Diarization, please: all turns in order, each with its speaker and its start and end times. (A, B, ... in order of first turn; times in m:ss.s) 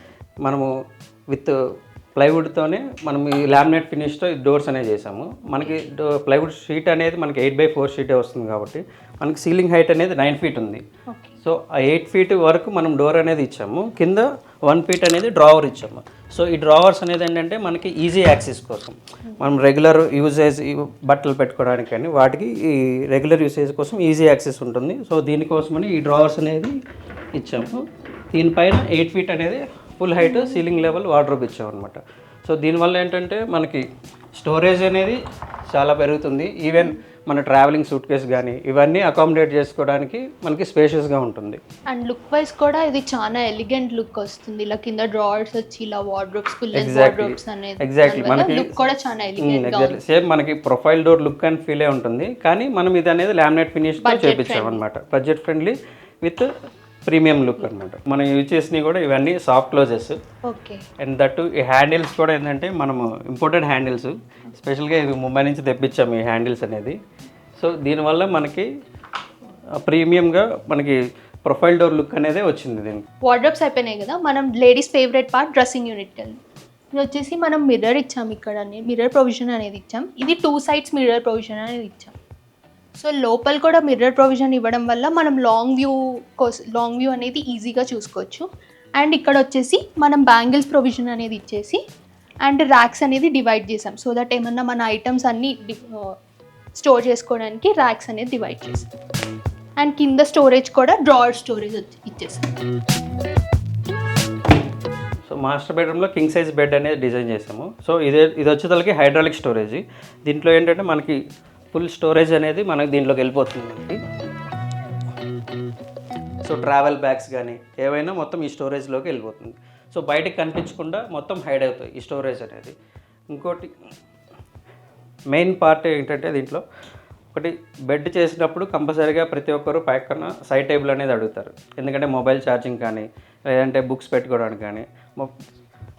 0:00.4-0:00.7 A
0:02.2-0:10.8 A
0:05.6-0:05.9 B
0:11.1-0:11.4 B
0:11.4-0:26.7 A
0:27.3-0:33.8 A
0:30.2-0:30.7 B
0:34.4-0:35.2 A
0:35.7-0:41.6 A
0:41.9-0:50.0 B
0:46.7-0:48.7 A
0:49.4-0:56.5 A
0:54.0-0:54.8 B
0:57.0-1:00.2 A
1:00.4-1:00.8 B
1:01.0-1:07.0 A
1:07.6-1:08.7 A
1:09.8-1:13.0 A
1:13.2-1:16.4 B
1:16.9-1:22.1 B
1:23.0-1:31.8 B
1:32.4-1:36.2 B
1:36.8-1:38.9 B
1:39.8-1:42.5 B
1:45.3-1:51.2 A
1:51.7-1:54.0 A
1:56.4-2:02.8 A
2:03.3-2:03.7 A
2:05.3-2:06.6 A
2:07.3-2:15.3 A